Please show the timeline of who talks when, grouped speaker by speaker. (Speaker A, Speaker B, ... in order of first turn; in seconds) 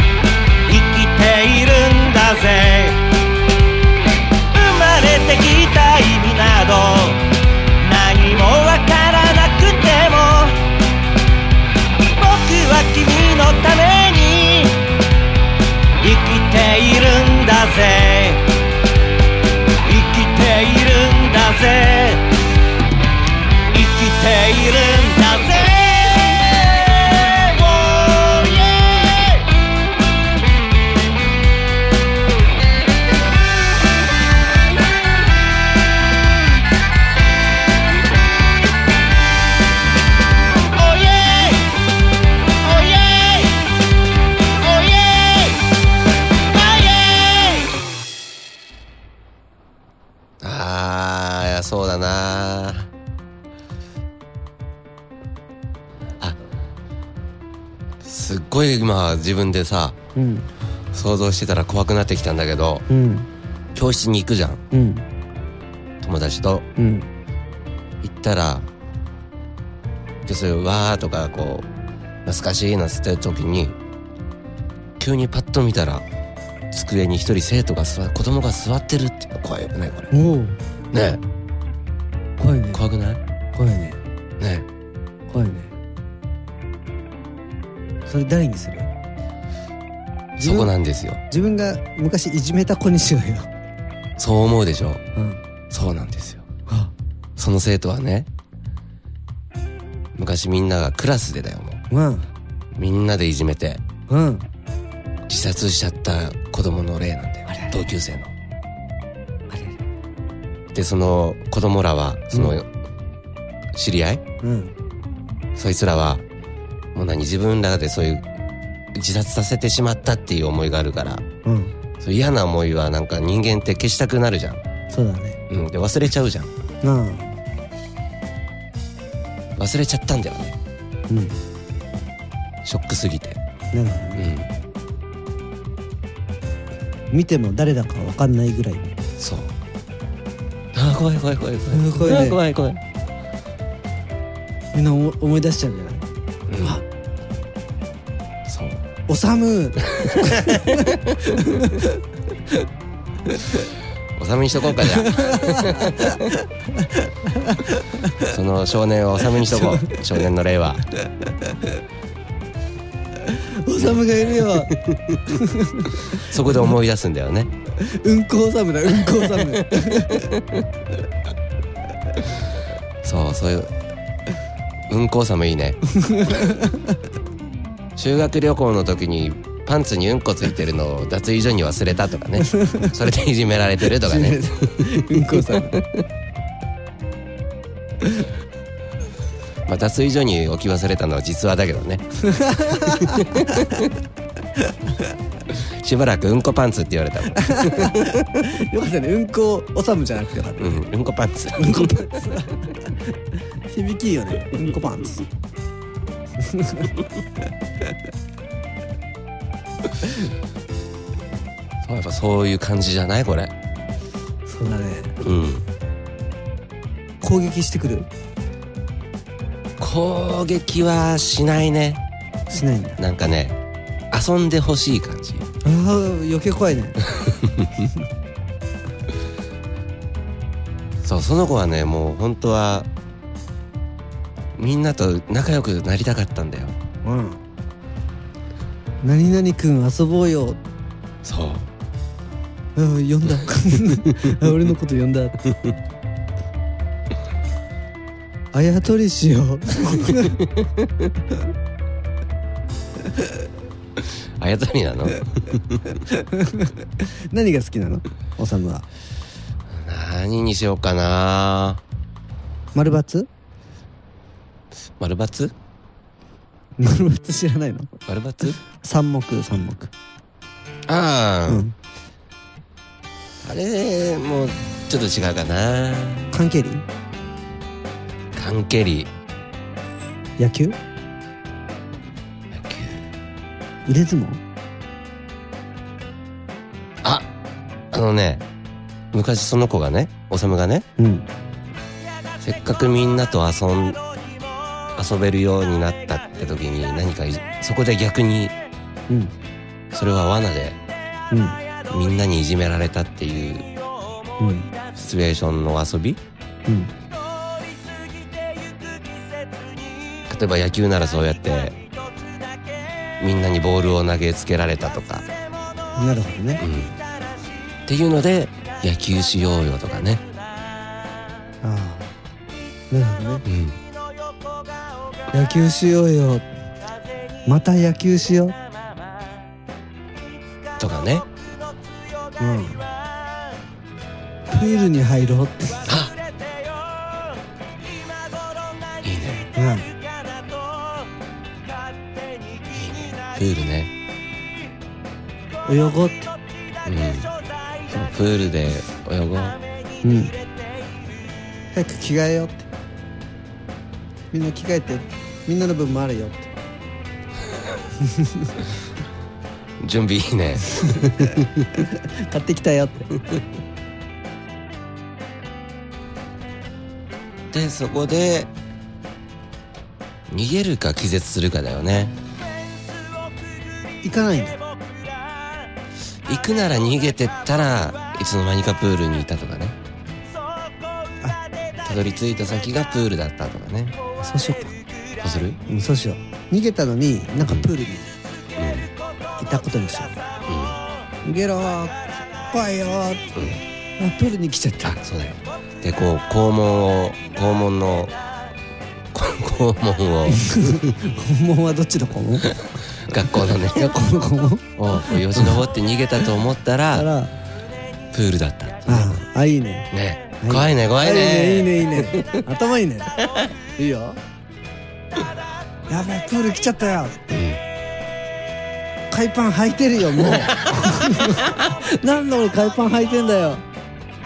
Speaker A: 0.7-3.0, 4.5-7.3, 7.8-10.6, 12.2-14.8, 16.0-18.4, 19.8-22.2, 23.7-29.5, 40.7-41.7, 42.6-43.6, 44.6-45.6, 46.5-47.7
Speaker B: 50.4-52.9, 58.0-60.0, 60.9-62.9, 63.8-64.6, 66.0-66.7, 68.0-68.7, 70.2-71.7, 72.2-73.8, 75.0-76.1, 76.7-80.1, 80.9-81.2, 82.7-83.2, 84.4-84.7, 90.4-91.2, 94.2-95.0, 95.7-96.5, 97.4-98.3, 100.2-101.8, 102.8-103.8, 105.3-108.3, 110.7-112.7, 113.7-114.2, 115.5-116.2, 116.9-118.2, 118.9-121.2, 122.0-124.6, 125.5-126.5, 129.6-130.6, 132.6-133.4, 134.2-134.5, 139.2-139.5, 140.7-142.8, 146.5-146.8, 148.5-148.8, 149.9-151.3, 154.2-156.3, 158.2-160.8, 163.8-165.2, 166.1-167.5, 169.1-170.4, 173.0-173.7, 174.9-175.8, 178.0-186.0, 189.7-192.1, 192.8-193.8, 195.5-198.2, 200.6-202.1, 211.8-213.5, 215.2-215.6, 219.8-222.0, 223.0-223.6, 224.1-225.5, 227.2-227.7, 231.0-232.9, 234.6-236.8, 241.2-241.7, 254.0-255.8, 259.7-261.8, 265.0-265.5, 268.1-268.6, 270.9-271.6, 273.4-276.3, 278.3-279.1, 282.5-283.0, 287.0-287.3, 287.9-288.4, 289.1-290.9, 292.4-294.0, 295.0-298.5, 299.9-300.8, 301.9-303.7, 304.9-306.2, 310.3-311.8, 313.2-315.3, 316.6-317.0, 317.9-320.2, 323.4-323.8, 330.8-331.3, 335.9-336.1, 339.0-339.5, 342.7-343.9, 346.9-347.3, 347.9-349.6, 359.8-361.7, 367.5-368.5, 370.3-372.1, 376.3-379.8, 381.8-384.0, 385.2-385.6, 387.4-387.7, 388.6-388.9, 390.5-390.8, 393.4-393.6, 394.8-398.1, 399.1-400.9, 402.5-403.9, 404.8-407.1, 408.1-409.2, 409.9-412.3, 417.3-417.6, 420.4-421.3
Speaker C: 60.1-60.5, 62.9-63.3, 64.7-65.0, 66.8-67.1, 80.1-80.6, 82.4-82.8, 83.5-84.0, 85.3-85.7, 88.1-88.9, 90.4-90.7, 91.3-93.5, 95.2-95.4, 101.9-102.3, 104.1-104.5, 107.5-107.8, 109.5-109.8, 112.3-112.6, 114.4-114.7, 121.4-121.7, 124.9-125.4, 126.8-127.4, 131.1-131.4, 133.7-134.3, 137.1-138.9, 141.7-142.4, 144.7-146.1, 149.1-151.9, 155.0-158.2, 159.5-160.0, 163.2-164.8, 165.3-166.2, 167.8-170.3, 175.9-176.9, 182.4-182.9, 184.0-185.8, 192.2-193.8, 197.4-200.8, 201.6-202.7, 203.7-205.3, 206.4-206.9, 214.5-215.2, 217.2-218.1, 222.5-223.0, 225.6-227.0, 237.0-237.4, 239.0-240.6, 242.8-245.4, 248.5-250.4, 256.1-258.9, 262.8-263.3, 266.8-267.9, 268.8-269.9, 271.5-271.8, 276.3-276.9, 280.4-280.8, 283.9-284.4, 291.0-291.3, 301.3-301.6, 304.4-304.7, 306.7-306.9, 316.0-316.6, 321.6-322.1, 322.9-323.4, 325.3-326.5, 327.4-328.6, 332.4-332.8, 334.5-335.9, 339.6-339.9, 345.7-346.3, 350.0-350.3, 351.7-352.7, 354.3-356.5, 358.0-358.5, 361.8-363.1, 374.0-374.6, 384.2-384.8, 385.7-388.1, 389.4-390.2, 391.2-393.3, 394.0-395.0, 400.3-402.5, 403.7-404.7, 406.9-407.3, 408.9-409.9, 410.4-413.2, 413.8-414.2, 415.9-417.2, 419.1-423.6